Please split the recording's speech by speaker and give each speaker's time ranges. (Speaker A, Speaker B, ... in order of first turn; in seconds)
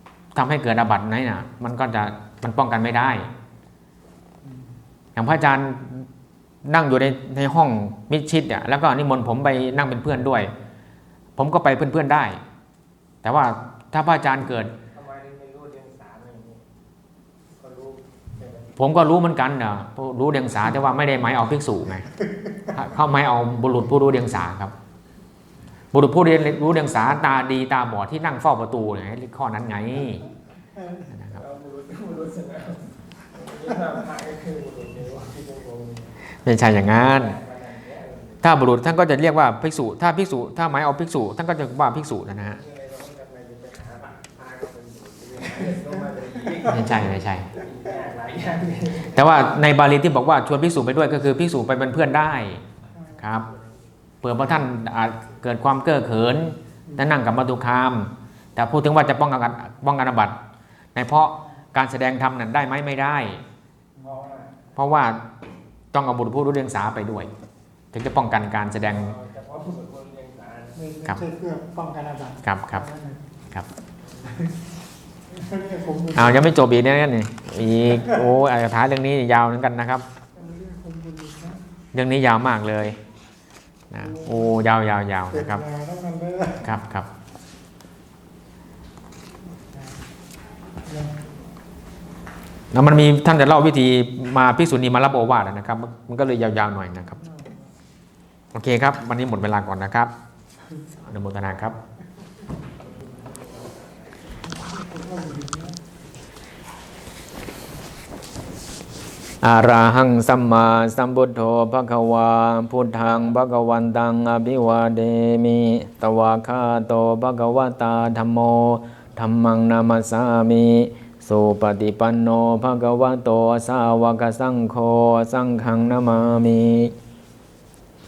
Speaker A: 0.3-3.3, 5.2-6.1, 6.7-10.5, 11.4-12.4, 13.2-14.8, 18.8-22.1, 22.6-24.7, 25.9-30.3, 31.1-31.4, 36.4-37.4, 38.4-42.6, 46.7-47.5, 49.1-53.5, 54.2-60.4, 61.0-63.4, 64.8-65.2, 65.9-67.3, 67.9-69.2, 72.4-72.9, 76.2-80.0, 81.9-83.0, 83.9-85.7, 86.6-87.1, 92.7-97.2, 98.5-100.1, 101.0-101.8, 109.4-126.9
Speaker B: 14.9-16.6, 17.6-18.7, 31.3-36.1, 36.9-38.4, 42.5-49.3, 64.0-64.6, 68.8-70.8, 102.8-104.1
Speaker C: 70.8-73.2, 75.3-76.5, 80.4-81.7, 84.0-84.4, 85.3-86.7, 90.8-91.2, 97.2-97.7, 104.5-105.8